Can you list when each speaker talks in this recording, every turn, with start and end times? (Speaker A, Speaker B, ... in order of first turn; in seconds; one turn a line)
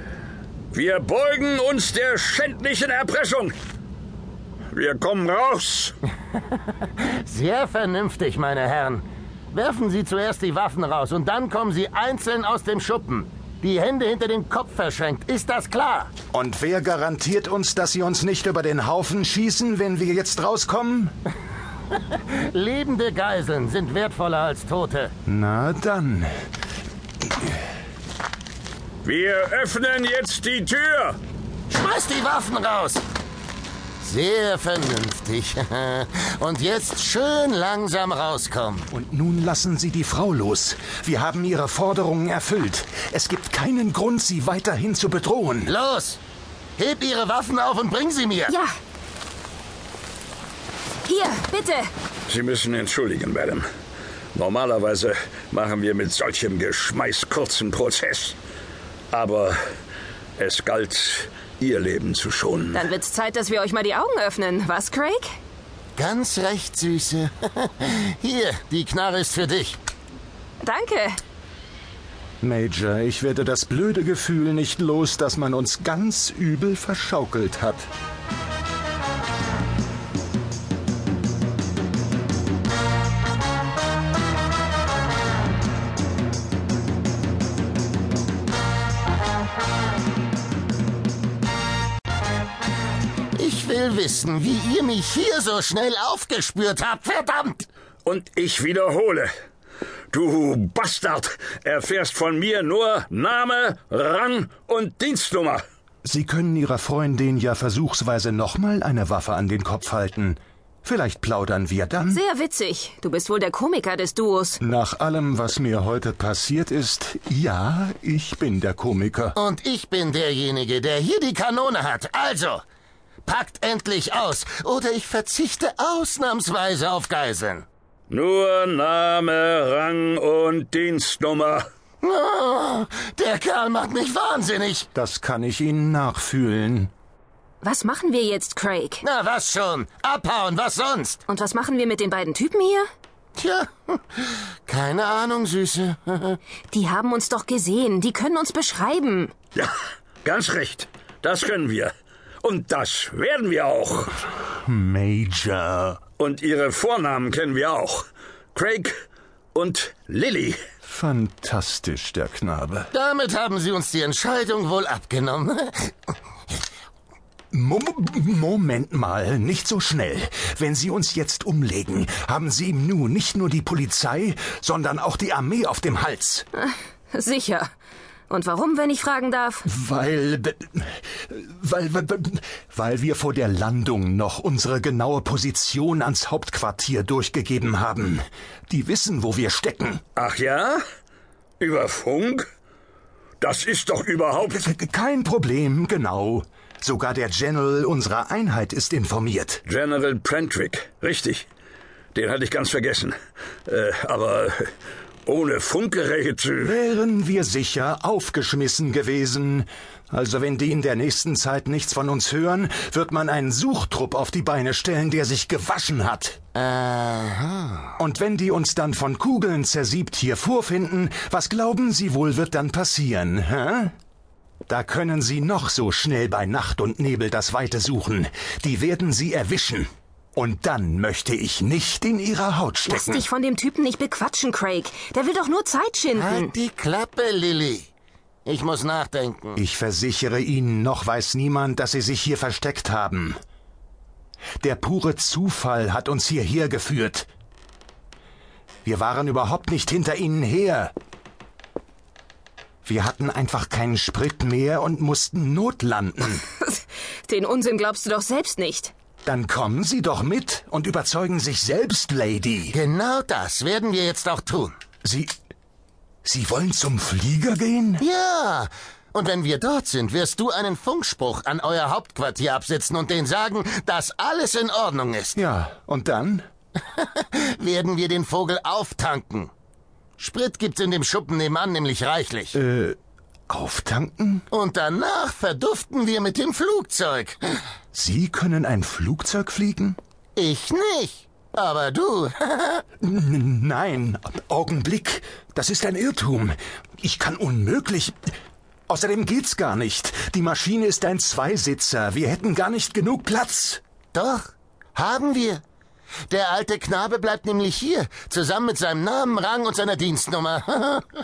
Speaker A: 0.7-3.5
Speaker A: 4.7-5.9
Speaker B: 7.0-16.1
Speaker C: 16.3-21.1
Speaker B: 22.3-25.1
Speaker C: 25.2-26.3
Speaker A: 29.0-31.2
Speaker B: 31.7-33.0
Speaker B: 34.0-38.9
Speaker C: 38.9-45.7
Speaker B: 45.7-46.2
Speaker B: 46.8-48.5
Speaker D: 51.0-51.9
Speaker A: 52.3-53.6
Speaker A: 54.3-58.4
Speaker A: 59.1-59.6
Speaker A: 60.4-62.8
Speaker D: 62.7-65.3
Speaker B: 66.0-69.8
Speaker D: 70.6-71.2
Speaker C: 72.4-77.9
Speaker B: 93.3-97.7
Speaker A: 98.0-99.3
Speaker A: 100.1-105.6
Speaker C: 106.0-112.2
Speaker D: 112.1-114.6
Speaker C: 114.6-119.3
Speaker B: 119.3-122.6
Speaker B: 123.2-127.7
Speaker A: 128.1-131.7
Speaker B: 132.0-134.9
Speaker C: 134.9-136.9
Speaker D: 137.6-139.0
Speaker B: 139.0-141.2
Speaker D: 141.3-142.8
Speaker B: 143.4-146.4
Speaker D: 146.7-149.3
Speaker A: 149.5-154.2
Speaker C: 154.6-156.0
Speaker A: 156.2-158.9
Speaker A: 159.5-160.6
Speaker C: 160.8-162.9
Speaker B: 162.9-165.9
Speaker C: 167.5-176.5
Speaker D: 176.6-177.7
Speaker D: 178.3-179.6
Speaker C: 179.6-190.0
Speaker A: 190.2-190.8
Speaker A: 191.6-192.5
Speaker A: 193.4-194.7
Speaker C: 194.4-199.6
Speaker A: 199.7-201.5
Speaker A: 202.1-203.1
Speaker A: 203.7-204.7
Speaker A: 205.2-206.7
Speaker C: 206.6-216.4
Speaker B: 216.5-217.9
Speaker C: 218.0-223.9
Speaker C: 224.7-233.2
Speaker D: 232.9-236.5
Speaker B: 236.1-237.9
Speaker B: 238.4-239.6
Speaker C: 239.6-243.4
Speaker C: 244.6-247.3
Speaker C: 248.8-250.9
Speaker C: 252.8-256.4
Speaker D: 256.6-258.9
Speaker C: 259.2-262.8
Speaker B: 262.7-264.8
Speaker C: 265.0-265.3
Speaker C: 266.2-268.0
Speaker B: 268.0-275.4
Speaker C: 275.4-276.4
Speaker B: 276.9-279.5
Speaker B: 280.2-282.6
Speaker C: 282.5-283.0
Speaker C: 283.5-284.5
Speaker B: 284.5-287.4
Speaker C: 287.9-290.0
Speaker B: 290.4-292.8
Speaker C: 293.0-298.1
Speaker C: 298.9-303.8
Speaker B: 304.1-305.6
Speaker B: 306.3-311.0